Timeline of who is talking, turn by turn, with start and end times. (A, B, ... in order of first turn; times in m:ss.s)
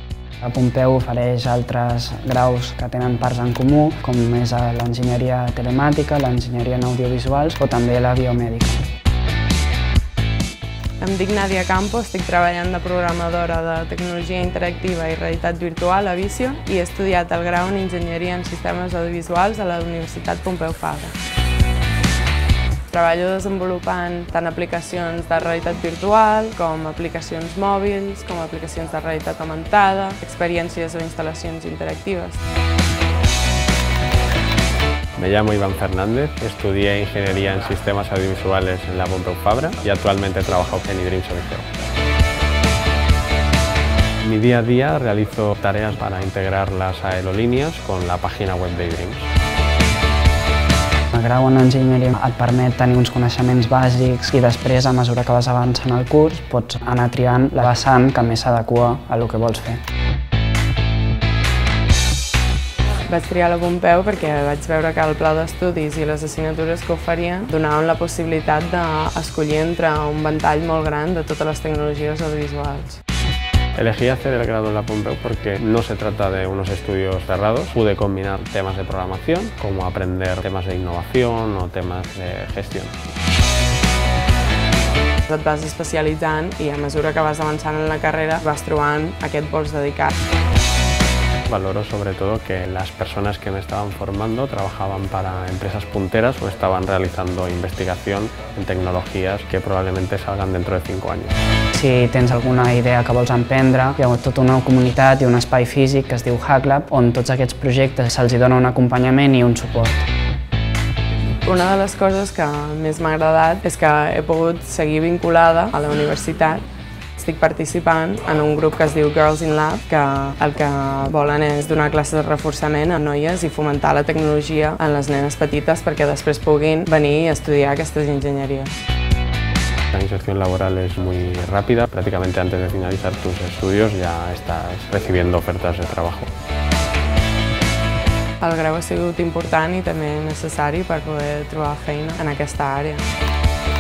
0:00.4-0:08.8 A
0:11.0-0:21.1 B
0:22.9-0:32.4 B
0:35.2-0:41.7 C
0:44.2-0:49.3 C
0:51.1-0:59.8 A
1:03.0-1:13.0 B
1:13.8-1:23.0 C
1:25.3-1:30.1 B
1:31.5-1:41.3 C
1:41.7-1:50.0 A
1:51.4-1:56.6 B
1:57.2-2:08.7 B
2:09.9-2:16.3 C
2:18.4-2:23.0 B